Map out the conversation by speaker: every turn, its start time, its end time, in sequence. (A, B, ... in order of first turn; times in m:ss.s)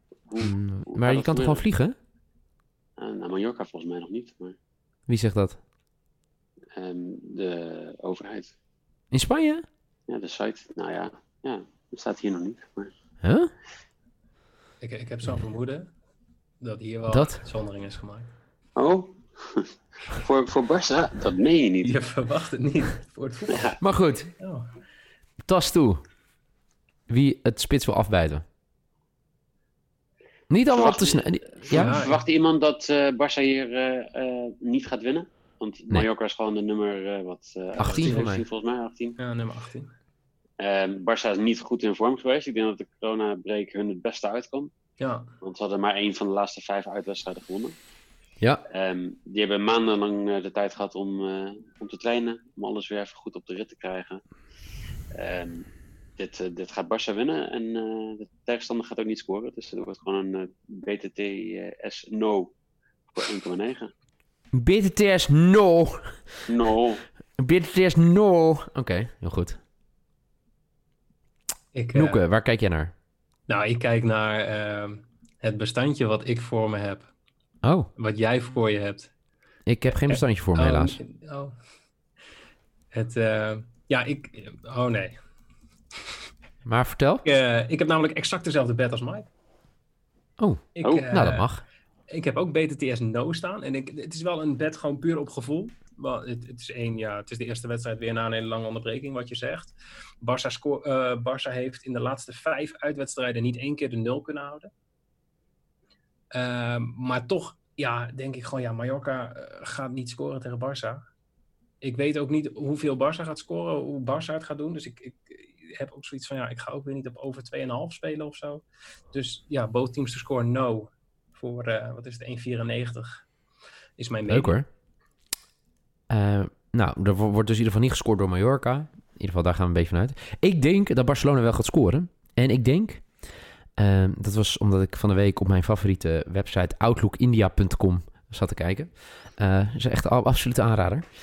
0:00.3-0:01.6 A
0:00.4-0:02.0 B
0:03.0-0:04.6 A
0:05.1-0:05.6 B
0:06.8-0:08.5 A
0:09.1-0:09.6 B
0:10.1-0:12.9 A
0:13.2-0:13.5 B
0:14.8-0:15.8 C
0:16.6-0:18.2 C
0:17.1-0:17.4 B
0:18.8-0:22.0 A
0:21.8-0:23.8 C
0:23.8-0:24.3 B
0:24.4-0:24.7 C
0:25.5-0:26.0 B
0:27.1-0:28.4 B
0:30.5-0:32.0 B
0:30.7-0:39.2 A
0:31.7-0:32.2 C
0:37.8-0:38.4 B
0:38.0-0:38.3 C
0:39.2-0:39.8 C
0:40.6-0:44.7 A
0:45.4-0:47.8 A
0:48.7-0:54.2 A
0:55.1-0:55.6 A
0:56.2-1:02.5 A
1:03.1-1:03.9 A
1:04.5-1:06.5 B
1:06.5-1:07.0 A
1:07.4-1:09.6 B
1:11.7-1:12.2 C
1:11.9-1:12.9 B
1:13.5-1:17.1 C
1:17.6-1:17.9 B
1:18.0-1:19.1 C
1:19.6-1:21.0 B
1:20.1-1:21.5 C
1:22.9-1:25.1 C
1:26.6-1:27.3 B
1:27.3-1:29.2 C
1:30.4-1:31.6 B
1:30.8-1:31.5 C
1:32.1-1:44.7 C
1:46.3-1:51.0 C
1:51.8-2:03.2 C
2:04.0-2:04.6 C
2:04.2-2:04.6 B
2:06.1-2:13.1 B
2:13.8-2:21.1 B